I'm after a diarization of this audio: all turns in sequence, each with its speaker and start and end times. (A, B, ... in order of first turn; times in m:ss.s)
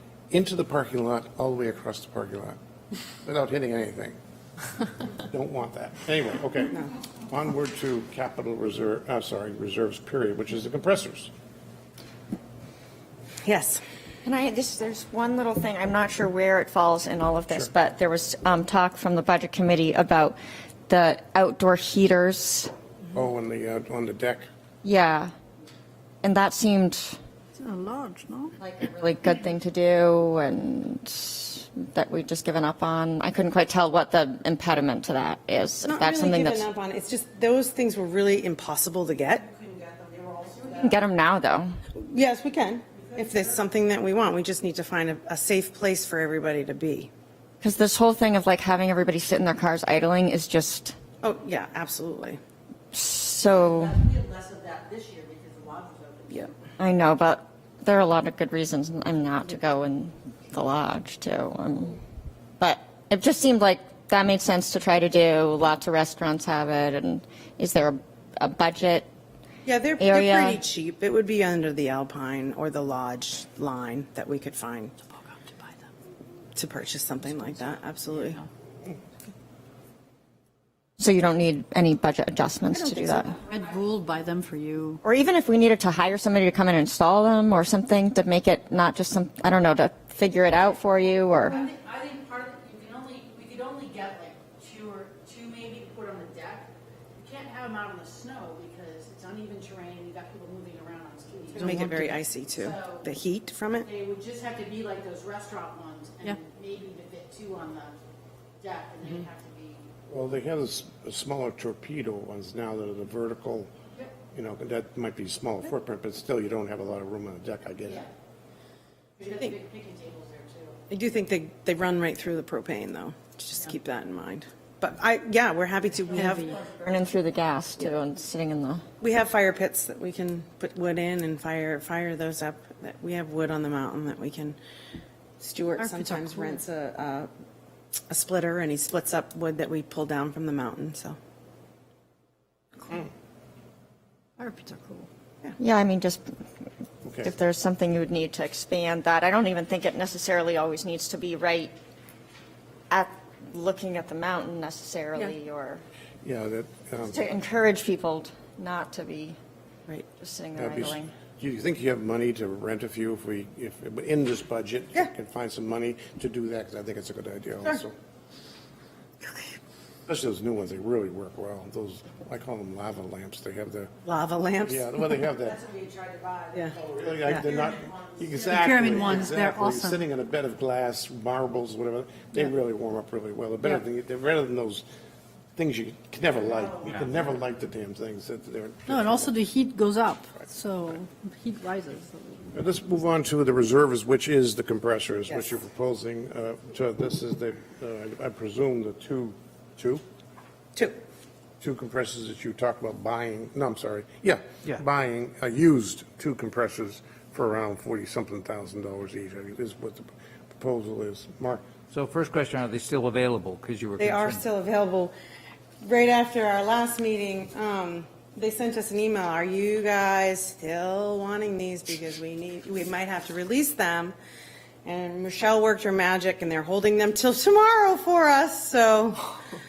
0:00.3-0:02.6 A
0:03.2-0:04.2 A
0:05.2-0:11.3 A
0:13.4-0:13.8 B
0:14.2-0:20.4 C
0:20.9-0:22.7 C
0:23.1-0:24.5 A
0:24.8-0:25.3 C
0:26.2-0:27.2 C
0:27.6-0:28.5 D
0:28.6-0:36.6 C
0:35.8-0:39.4 B
0:39.4-0:40.9 E
0:40.7-0:41.8 C
0:42.0-0:47.1 B
0:47.6-0:51.0 C
0:51.2-0:52.4 B
0:52.9-0:54.0 C
0:53.5-0:56.5 E
0:56.8-1:02.0 C
1:02.6-1:09.1 C
1:09.6-1:15.0 B
1:10.0-1:10.6 C
1:16.5-1:18.4 B
1:21.0-1:23.4 C
1:22.8-1:23.3 B
1:23.5-1:25.0 D
1:23.5-1:23.9 E
1:25.0-1:31.6 C
1:31.5-1:41.8 E
1:41.6-1:43.9 B
1:41.7-1:42.1 D
1:42.5-1:43.1 E
1:43.8-1:47.9 E
1:48.6-1:49.9 E
1:50.1-1:53.7 A
1:54.3-1:58.1 A
1:59.2-2:00.8 E
2:00.9-2:06.6 B
2:06.1-2:06.4 D
2:06.2-2:08.8 C
2:09.0-2:14.6 B
2:15.4-2:17.3 B
2:15.8-2:16.5 D
2:18.1-2:21.2 B
2:24.4-2:25.0 D
2:25.6-2:26.4 C
2:27.0-2:27.3 A
2:27.2-2:31.7 C
2:32.9-2:35.8 C
2:36.2-2:37.2 A
2:37.0-2:39.4 C
2:40.1-2:41.1 C
2:40.6-2:47.9 A
2:50.1-2:53.9 A
2:54.0-2:55.2 B
2:54.6-2:55.6 A
2:55.6-2:56.6 E
2:56.7-3:04.8 A
2:58.1-2:59.2 E
2:58.6-3:00.0 D
3:05.6-3:09.3 A
3:09.0-3:12.4 D
3:12.5-3:20.0 A
3:21.6-3:31.6 A
3:31.9-3:34.4 F
3:34.0-3:35.1 B
3:35.8-3:44.1 B
3:44.8-3:49.4 B